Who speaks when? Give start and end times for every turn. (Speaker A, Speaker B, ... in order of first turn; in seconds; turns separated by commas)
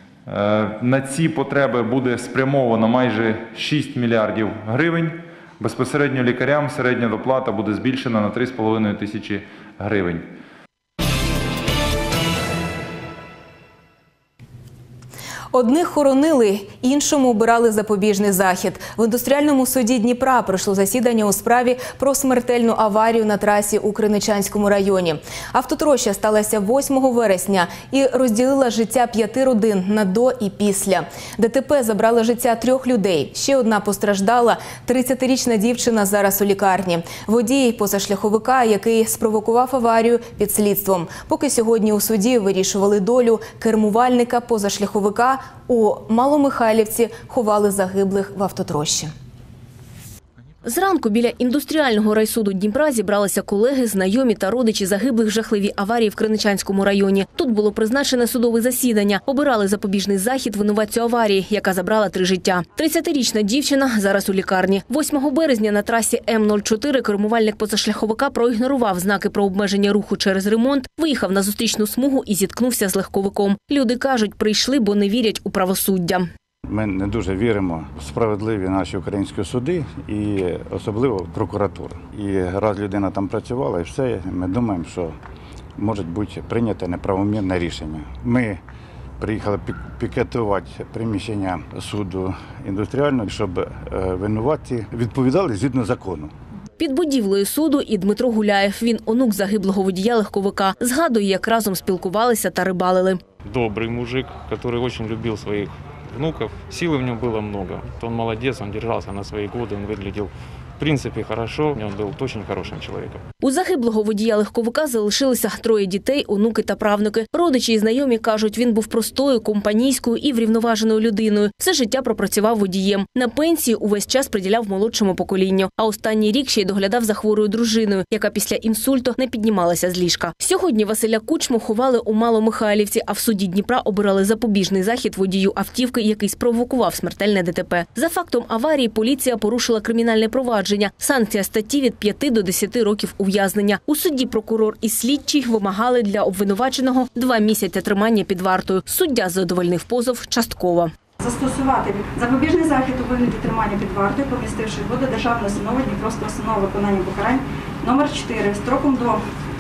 Speaker A: 0.3-10.3, Speaker B: 15.5-49.1, Speaker C: 50.6-76.3, Speaker D: 76.7-85.2, Speaker D: 85.8-88.6, Speaker D: 89.2-96.3, Speaker C: 96.8-103.2, Speaker E: 103.4-113.2, Speaker C: 113.4-150.9, Speaker F: 151.2-159.2